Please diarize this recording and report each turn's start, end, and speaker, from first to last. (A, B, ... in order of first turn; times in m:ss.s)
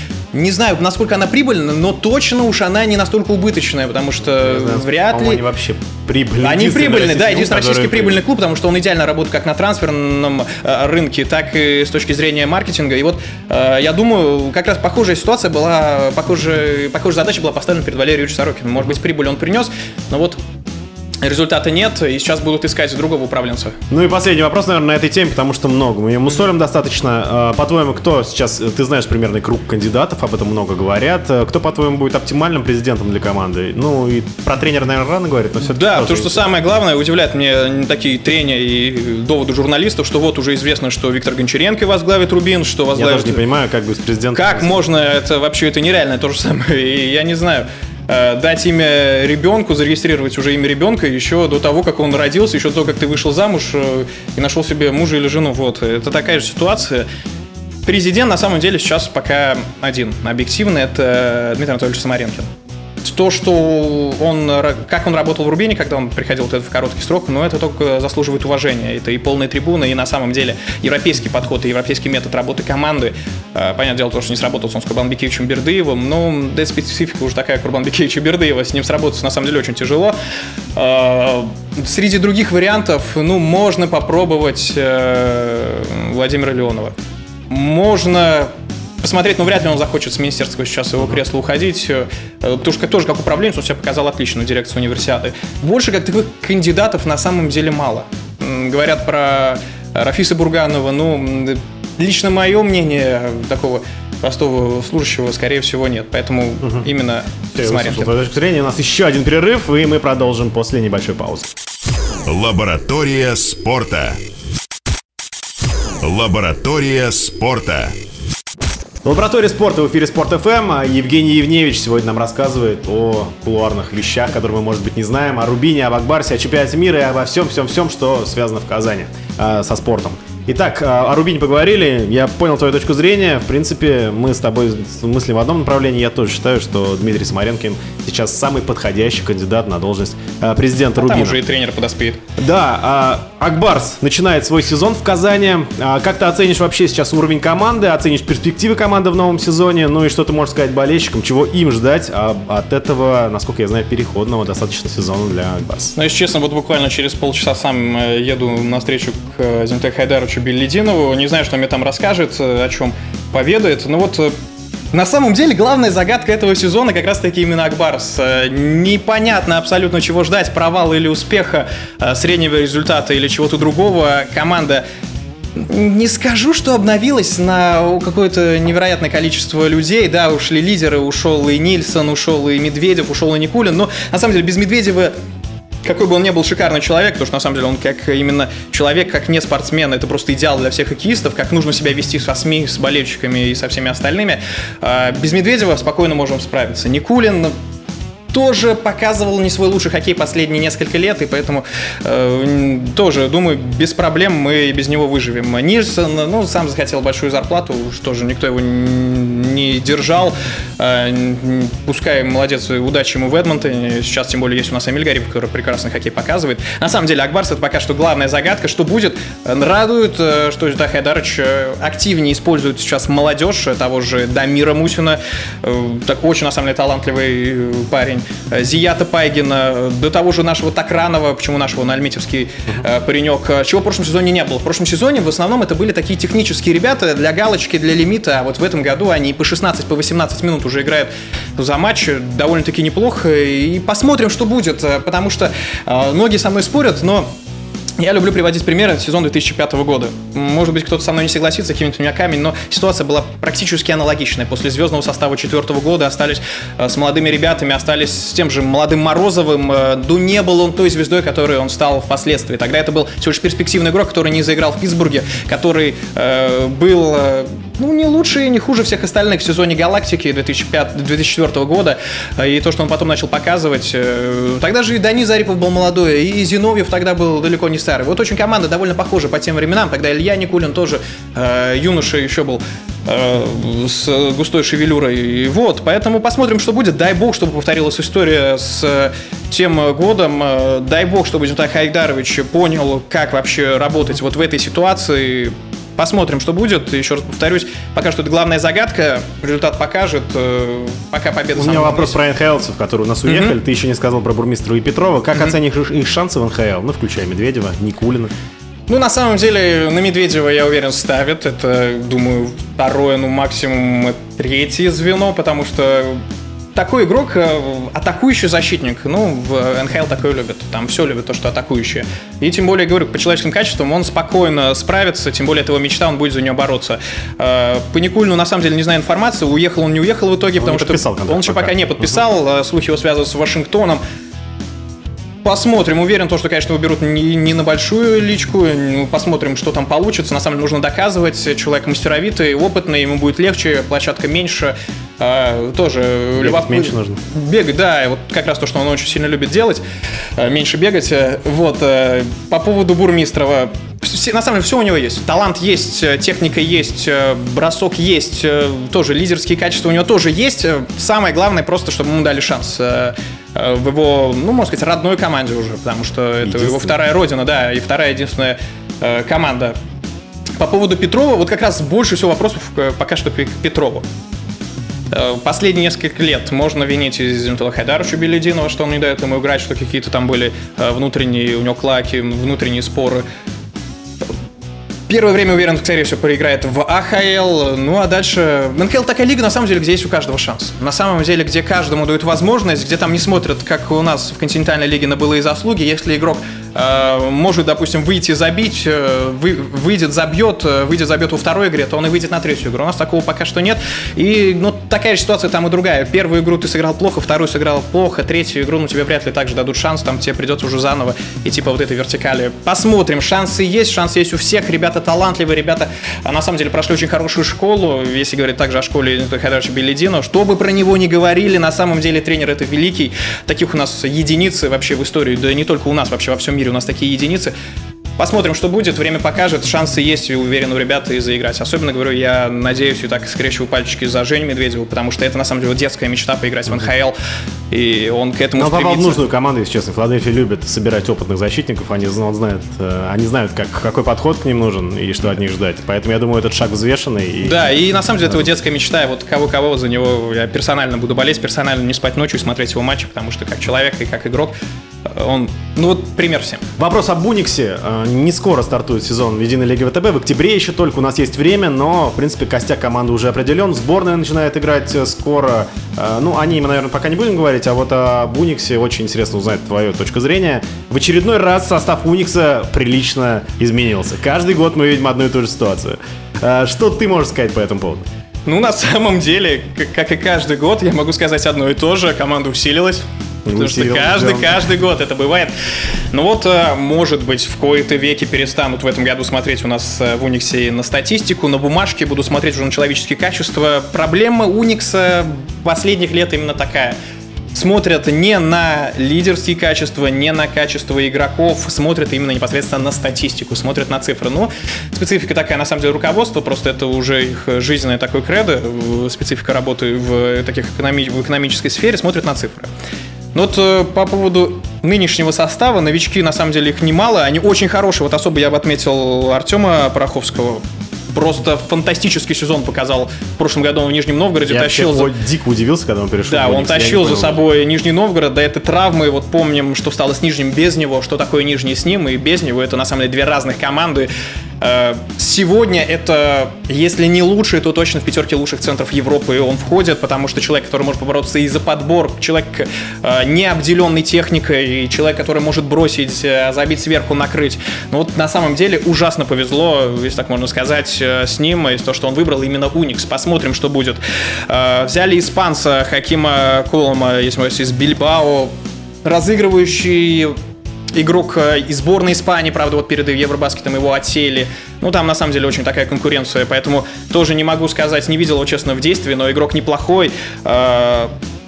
0:00.3-0:05.4 A
0:04.4-0:08.2 B
0:06.4-0:20.4 A
0:21.2-0:23.8 A
0:23.9-0:36.4 B
0:35.6-0:43.4 A
0:42.9-0:44.8 B
0:44.3-0:57.1 A
0:57.8-1:02.5 A
1:03.0-1:20.1 A
1:20.7-1:26.9 A
1:27.5-1:28.5 A
1:29.0-1:48.1 A
1:47.6-1:51.5 B
1:52.2-1:54.2 C
1:56.0-1:58.0 C
1:59.0-2:21.4 B
2:21.0-2:22.2 A
2:22.4-2:35.9 B
2:35.9-2:44.3 A
2:44.9-2:54.8 A
2:55.5-3:05.1 A
3:05.8-3:17.5 A
3:18.3-4:07.3 A
4:08.0-5:02.2 A
5:01.6-5:08.3 B
5:03.2-5:03.5 A
5:08.9-5:16.2 A
5:16.7-5:34.0 A
5:30.6-5:31.7 B
5:35.4-5:49.8 A
5:46.4-5:47.2 B
5:50.4-6:09.8 A
6:06.4-6:06.9 B
6:10.6-6:14.0 A
6:15.1-6:23.2 A
6:25.1-7:07.5 A
7:08.2-7:17.2 A
7:17.7-7:19.2 A
7:18.6-7:27.6 B
7:27.4-7:34.5 A
7:35.0-7:36.6 A
7:36.8-7:58.0 B
7:58.4-8:05.5 A
8:03.4-8:04.6 B
8:06.1-8:17.0 A
8:17.5-8:32.7 A
8:33.3-8:45.1 A
8:44.5-8:47.4 B
8:46.2-8:54.1 A
8:54.6-9:18.5 A
9:19.0-9:20.4 A
9:20.9-9:31.1 A